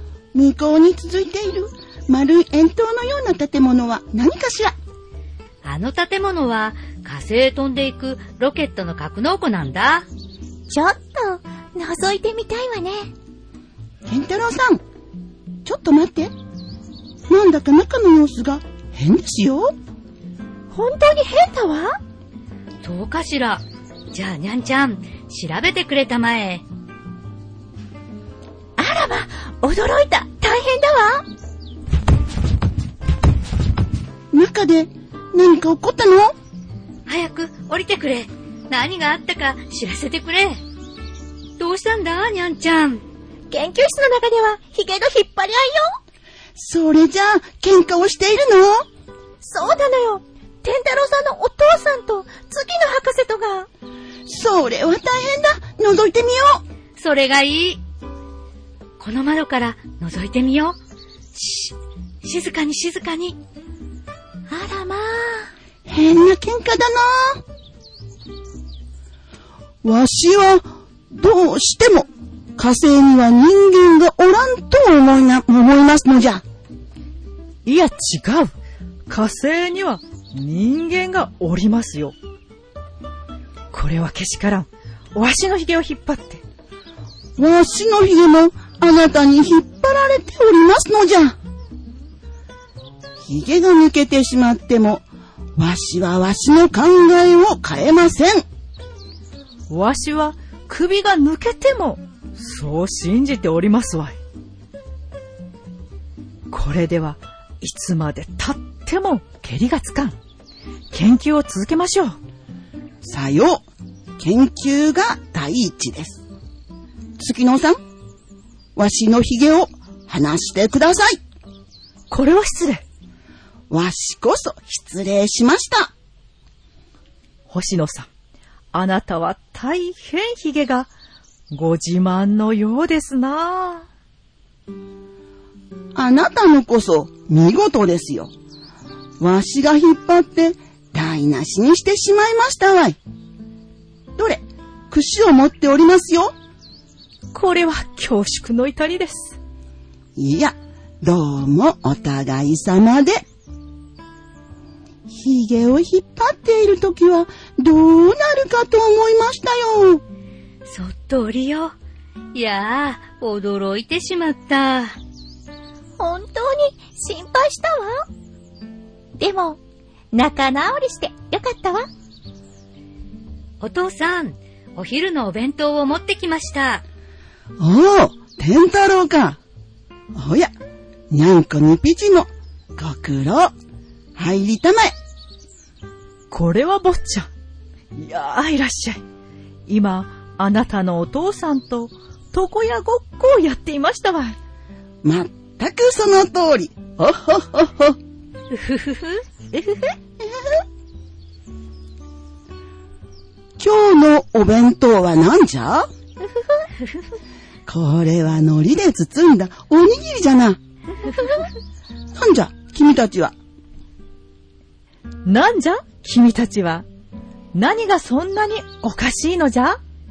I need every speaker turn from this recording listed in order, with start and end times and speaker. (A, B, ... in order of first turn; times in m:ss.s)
0:00.3-0:04.8 A
0:05.6-0:10.1 B
0:10.7-0:13.1 C
0:14.1-0:14.8 A
0:15.6-0:16.3 A
0:17.3-0:19.7 A
0:20.7-0:22.0 C
0:22.8-0:26.6 B
0:28.8-0:31.3 C
0:34.3-0:36.4 A
0:37.1-0:40.6 B
0:41.6-0:43.0 B
0:43.5-0:45.9 C
0:46.6-0:48.9 A
0:49.4-0:53.7 C
0:54.3-0:56.6 A
0:57.0-0:57.8 B
0:59.0-1:00.8 B
1:01.3-1:03.4 B
1:04.5-1:05.5 C
1:05.9-1:07.4 A
1:09.8-1:16.4 A
1:17.6-1:18.5 D
1:19.1-1:22.2 D
1:23.7-1:26.4 D
1:27.4-1:31.4 A
1:33.3-1:35.0 A
1:35.6-1:38.5 A
1:39.7-1:44.2 D
1:46.5-1:50.2 D
1:50.9-1:52.2 D
1:53.0-1:53.6 A
1:54.2-1:56.2 A
1:57.2-1:57.8 A
1:58.8-2:01.2 A
2:02.1-2:02.8 D
2:03.7-2:05.9 A
2:07.5-2:08.1 D
2:08.7-2:10.9 D
2:11.5-2:13.9 D
2:16.0-2:18.3 A
2:19.2-2:23.0 A
2:24.2-2:26.3 A
2:27.3-2:29.4 D
2:30.2-2:33.3 A
2:35.1-2:40.0 A
2:40.7-2:41.7 B
2:42.3-2:45.0 B
2:46.0-2:48.1 C
2:49.2-2:49.6 C
2:50.1-2:51.9 C
2:53.6-2:56.8 B
2:57.6-2:59.4 A
3:00.1-3:00.5 A
3:01.1-3:03.5 A
3:04.2-3:05.0 A
3:06.3-3:07.3 D
3:08.0-3:09.0 D
3:09.7-3:14.4 D
3:15.0-3:18.0 A
3:18.5-3:19.2 B
3:19.5-3:20.0 C
3:23.6-3:25.9 A
3:27.7-3:30.6 A
3:32.2-3:33.4 A
3:35.2-3:36.8 D
3:37.5-3:39.8 D